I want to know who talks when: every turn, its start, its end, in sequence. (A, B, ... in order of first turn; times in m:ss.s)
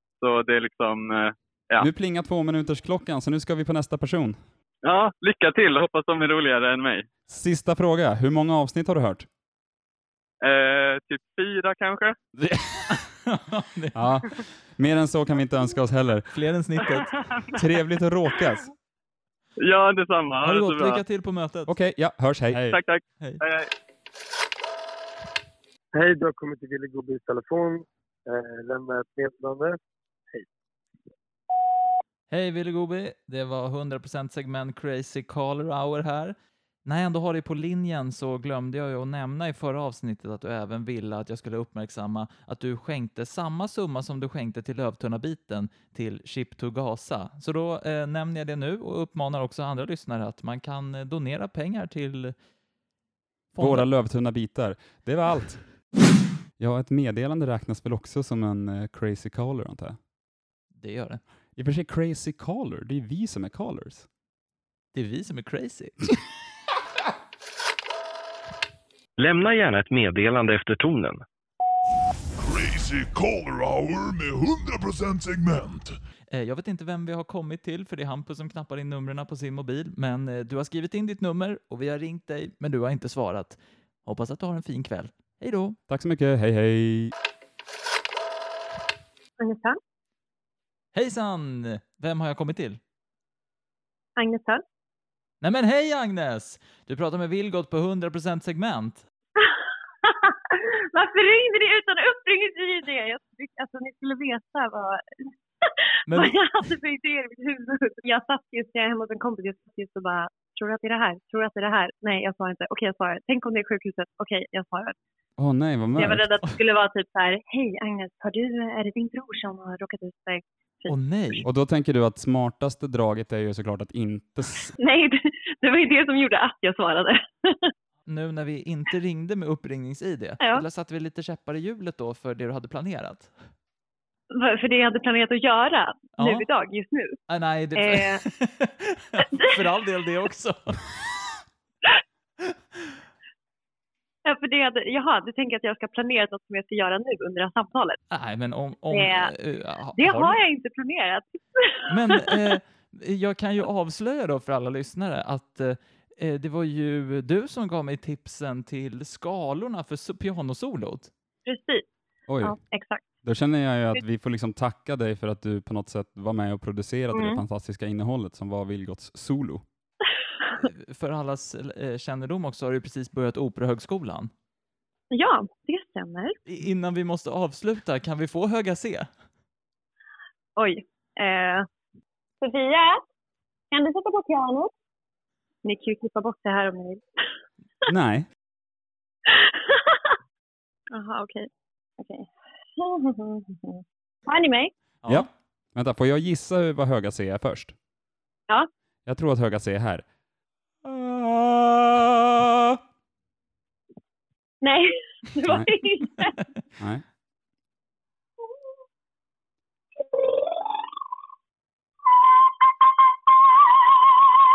0:00.2-0:01.9 A
0:01.8-0:04.4 B
0:04.8-0:07.1 A
0:07.3-0:09.3 B
0:10.4-0:12.2 A
0:12.4-0:13.0 B
0:12.9-0:14.0 C
0:13.9-0:16.3 B
0:16.3-0:17.1 C
0:17.5-0:18.7 B
0:19.6-0:21.0 A
0:20.4-0:21.7 C
0:21.7-0:22.8 B
0:22.6-0:23.6 A
0:25.9-0:29.8 D
0:32.3-0:52.4 C
0:53.5-0:53.9 C
0:53.6-0:55.7 B
0:56.6-1:00.0 B
1:00.8-1:01.2 C
1:01.6-1:04.1 B
1:04.9-1:06.2 C
1:09.2-1:11.2 E
1:12.4-1:16.0 F
1:16.3-1:25.8 C
1:25.9-1:27.1 B
1:29.4-1:29.8 G
1:30.9-1:32.8 C
1:34.2-1:34.6 G
1:35.4-1:39.0 C
1:39.4-1:55.0 G
1:46.1-1:46.4 C
1:55.4-1:56.4 B
1:56.0-2:00.9 G
2:00.9-2:01.4 C
2:01.4-2:04.8 B
2:04.8-2:07.7 G
2:08.1-2:13.3 C
2:10.4-2:10.6 G
2:14.3-2:17.2 G
2:16.2-2:16.5 C
2:17.3-2:20.8 C
2:17.8-2:18.2 G
2:19.3-2:19.6 G
2:24.3-2:28.0 G
2:28.1-2:30.4 C
2:28.9-2:29.3 G
2:29.9-2:32.5 G
2:31.9-2:41.1 C
2:41.5-2:41.8 G
2:42.3-2:42.6 B
2:42.4-2:43.0 G
2:43.2-2:49.6 B
2:47.1-2:47.4 G
2:50.6-2:54.3 C
2:55.1-2:56.4 G
2:56.5-2:59.1 C
3:00.6-3:01.7 G
3:02.4-3:03.0 G
3:03.7-3:04.7 G
3:05.6-3:07.0 G
3:07.9-3:08.3 B
3:09.3-3:10.1 G
3:10.9-3:11.5 G
3:12.0-3:14.7 G
3:15.0-3:15.3 C
3:15.1-3:17.8 B
3:19.1-3:20.0 B
3:20.8-3:22.8 B
3:24.6-3:26.4 G
3:25.4-3:25.7 B
3:26.8-3:27.0 B